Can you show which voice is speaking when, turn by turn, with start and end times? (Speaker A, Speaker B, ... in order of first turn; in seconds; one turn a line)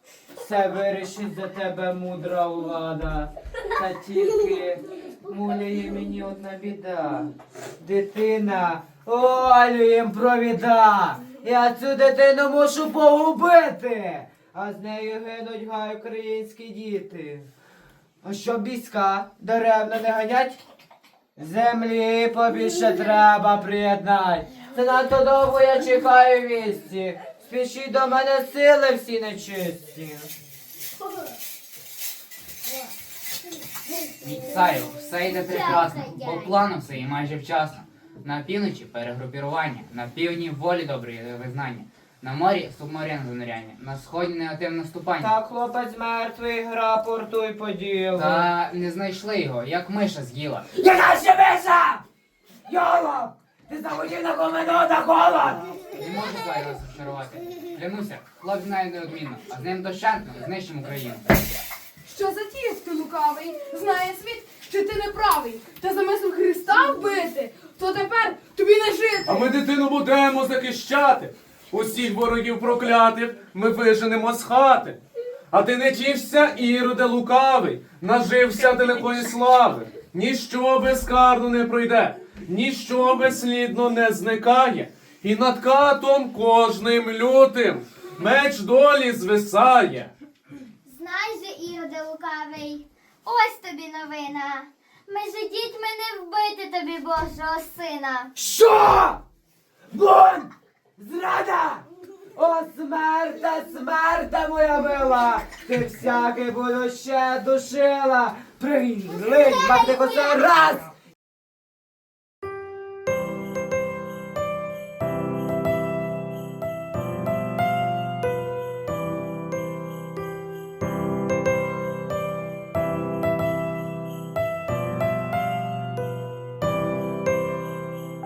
Speaker A: 0.3-17.5
Speaker A: 18.2-20.6
Speaker A: 21.4-30.3
Speaker B: 34.2-45.3
Speaker C: 35.3-36.6
Speaker A: 45.2-48.5
Speaker B: 48.1-50.7
Speaker A: 50.8-52.0
Speaker A: 52.7-55.6
Speaker B: 55.9-61.6
Speaker D: 62.1-69.5
Speaker E: 69.3-75.0
Speaker E: 75.5-90.1
Speaker C: 90.8-98.3
Speaker A: 98.4-99.2
Speaker A: 99.9-101.8
Speaker A: 102.3-110.9